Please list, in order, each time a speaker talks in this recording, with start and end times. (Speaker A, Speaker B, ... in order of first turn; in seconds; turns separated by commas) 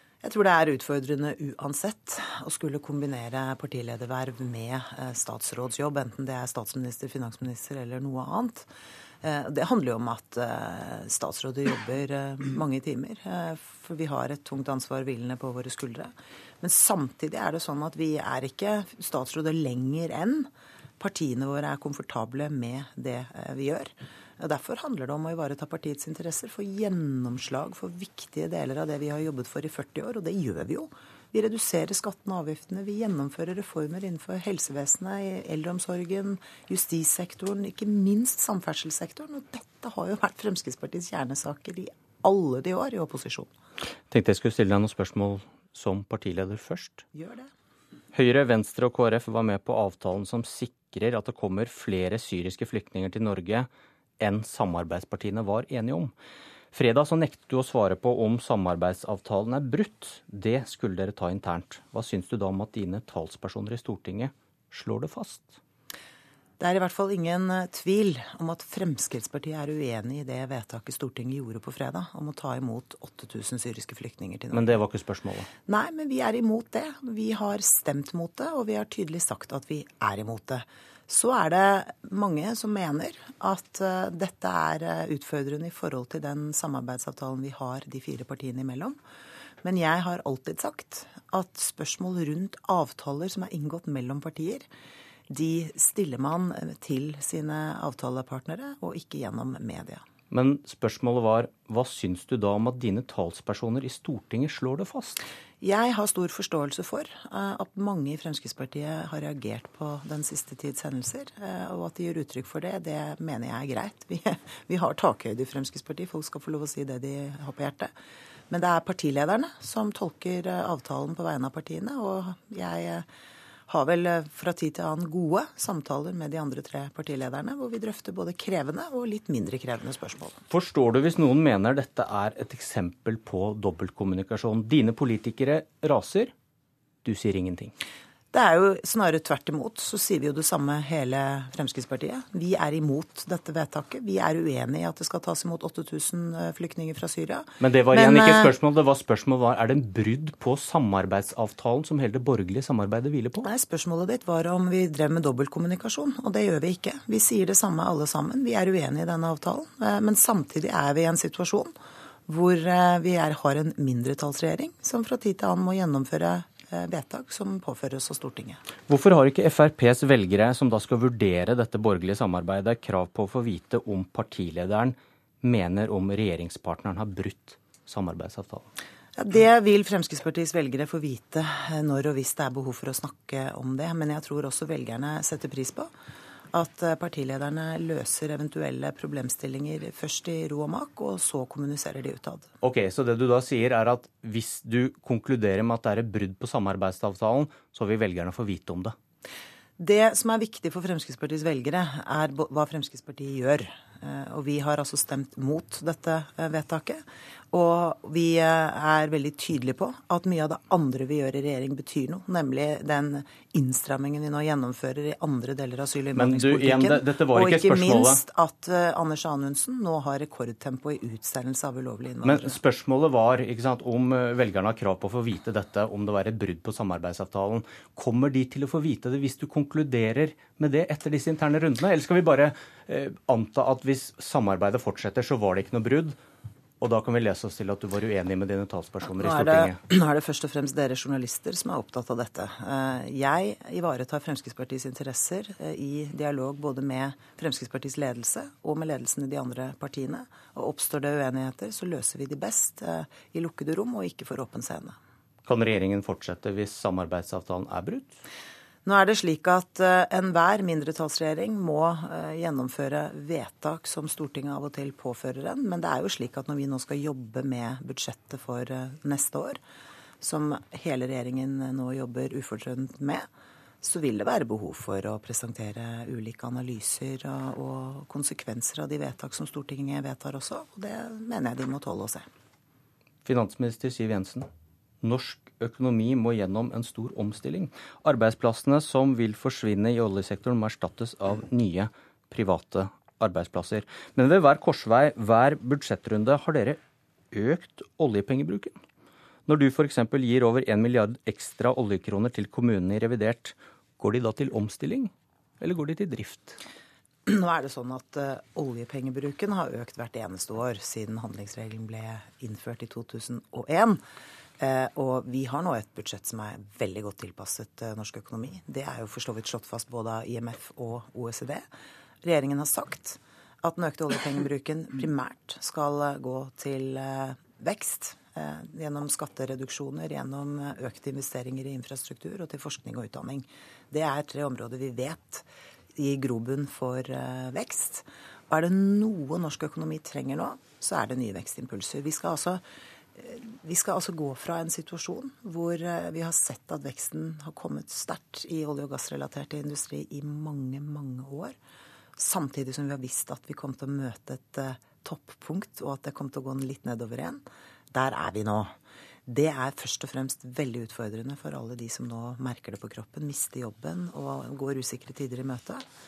Speaker A: 0.2-8.7, Speaker A: 9.2-20.5, Speaker A: 21.0-43.5, Speaker B: 44.1-47.0, Speaker A: 47.1-47.5, Speaker B: 48.1-53.7, Speaker B: 54.2-56.1, Speaker B: 56.7-65.6, Speaker A: 66.6-74.8, Speaker B: 74.5-75.5, Speaker A: 75.7-89.0, Speaker A: 89.6-94.7, Speaker A: 95.3-100.0, Speaker B: 100.3-105.2, Speaker A: 105.6-117.9, Speaker A: 118.5-123.1, Speaker A: 123.7-130.4, Speaker B: 130.5-136.3, Speaker B: 137.0-137.7, Speaker A: 138.3-148.5, Speaker B: 147.6-153.5, Speaker A: 153.4-161.7, Speaker A: 162.3-168.6, Speaker B: 168.9-178.7, Speaker A: 179.2-185.9, Speaker A: 186.5-192.5, Speaker B: 192.6-198.9, Speaker A: 199.8-222.6, Speaker B: 216.2-218.2, Speaker B: 222.3-236.2, Speaker B: 236.8-239.8, Speaker A: 239.1-255.0, Speaker B: 255.5-258.1, Speaker A: 258.9-269.6, Speaker A: 270.2-273.3, Speaker A: 273.8-282.3, Speaker B: 283.2-284.5, Speaker B: 285.0-296.8, Speaker B: 297.3-298.8, Speaker B: 299.5-306.6, Speaker A: 307.3-314.0, Speaker A: 314.6-321.6, Speaker A: 322.2-342.6, Speaker A: 343.2-351.6, Speaker A: 352.2-358.7, Speaker A: 359.3-365.9